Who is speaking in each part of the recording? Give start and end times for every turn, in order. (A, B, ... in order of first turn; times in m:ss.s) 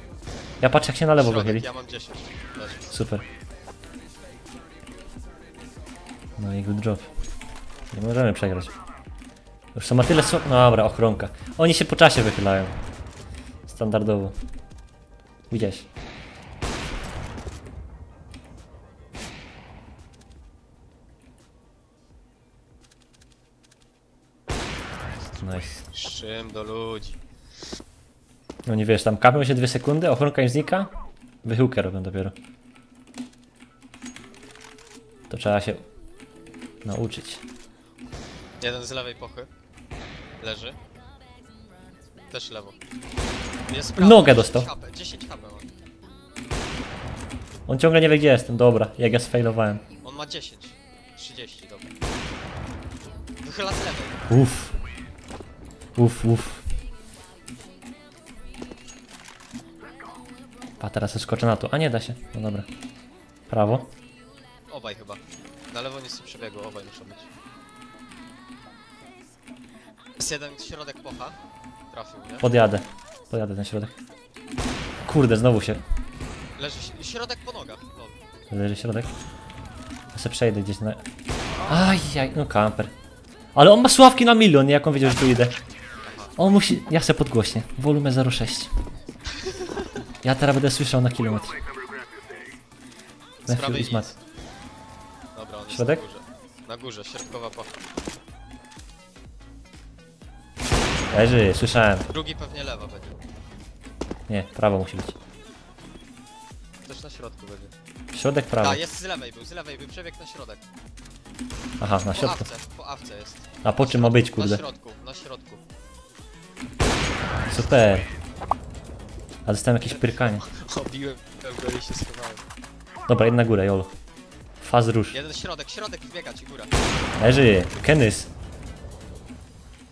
0:00.6-0:01.7 A
0:01.2-0:03.0 B
0:02.9-0:03.2 A
0:06.4-0:07.1 A
0:07.9-0:08.7 A
0:09.8-0:12.7 A
0:13.7-0:14.4 A
0:15.5-0:15.9 A
0:25.4-0:25.8 A
0:25.9-0:27.2 B
0:28.7-0:30.9 A
0:31.4-0:32.4 A
0:35.3-0:35.8 A
0:36.8-0:37.4 A
0:38.6-0:39.5 B
0:40.4-0:40.8 B
0:42.3-0:42.8 B
0:43.7-0:45.7 B
0:44.0-0:44.7 A
0:47.7-0:49.8 A
0:50.0-0:51.9 B
0:53.4-0:54.2 B
0:54.3-0:54.7 A
0:56.0-0:56.6 A
1:00.8-1:02.7 A
1:03.5-1:03.9 A
1:04.7-1:07.3 B
1:10.2-1:11.4 B
1:11.9-1:12.5 B
1:12.4-1:14.0 A
1:15.1-1:15.8 A
1:16.6-1:18.2 B
1:18.5-1:19.1 A
1:20.1-1:21.0 A
1:21.7-1:22.9 A
1:23.6-1:25.6 A
1:26.0-1:26.3 B
1:26.4-1:28.7 A
1:29.4-1:30.0 B
1:30.2-1:31.6 A
1:33.4-1:34.2 B
1:33.5-1:34.1 A
1:35.4-1:37.8 B
1:35.7-1:36.0 A
1:41.1-1:42.1 A
1:42.1-1:43.2 B
1:44.3-1:45.2 A
1:46.8-1:47.7 B
1:48.1-1:48.8 A
1:48.6-1:50.6 B
1:51.8-1:52.4 A
1:52.1-1:55.6 B
1:53.6-1:54.6 A
1:57.5-1:58.1 A
1:59.5-2:00.4 A
1:59.9-2:02.4 B
2:03.1-2:03.9 A
2:04.6-2:05.2 A
2:05.1-2:06.7 B
2:07.2-2:08.3 A